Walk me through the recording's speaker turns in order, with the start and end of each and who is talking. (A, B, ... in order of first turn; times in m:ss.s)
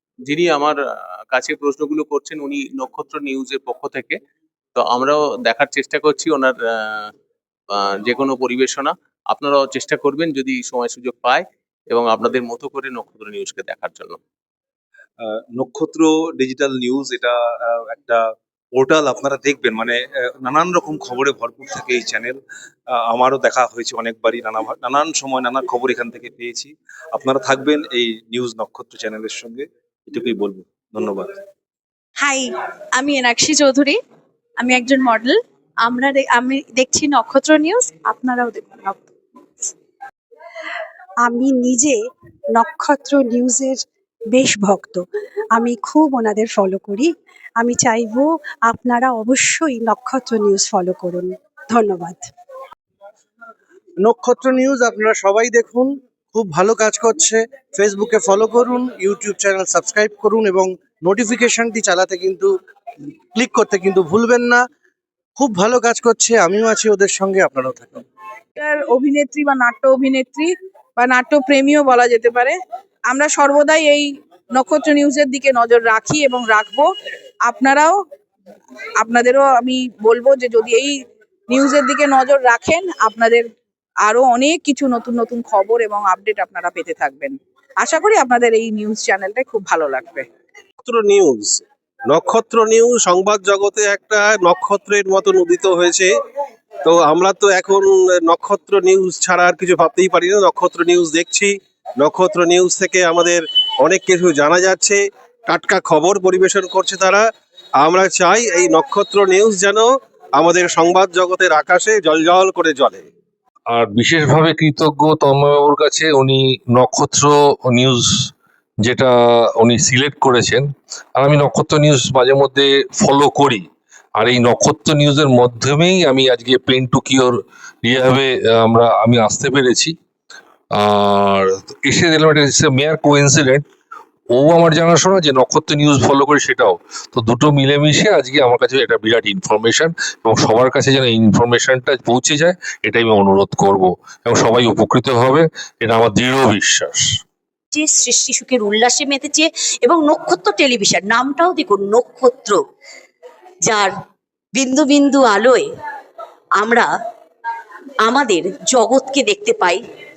0:00.2-0:00.8 A
0:01.3-0:04.2 A
0:04.8-0:07.1 A
0:07.7-0:14.2 A
0:15.2-0:18.2 B
0:18.8-0:22.4 B
0:22.9-0:31.3 B
0:32.2-0:34.0 C
0:34.6-0:39.1 C
0:41.2-0:42.0 D
0:42.5-0:43.8 D
0:44.3-0:52.2 D
0:54.0-1:02.5 E
1:03.3-1:04.6 E
1:05.4-1:08.0 E
1:08.6-1:12.6 F
1:13.1-1:16.9 F
1:17.4-1:18.0 F
1:19.0-1:21.0 F
1:21.5-1:23.5 F
1:24.0-1:30.2 F
1:30.8-1:36.1 G
1:36.8-1:47.2 G
1:47.8-1:53.1 G
1:53.7-1:58.1 H
1:58.8-2:03.6 H
2:04.2-2:09.9 H
2:10.7-2:13.6 H
2:14.3-2:27.0 H
2:27.7-2:32.6 I
2:33.6-2:33.9 I
2:34.5-2:35.6 I
2:36.6-2:36.9 I
2:38.0-2:39.8 I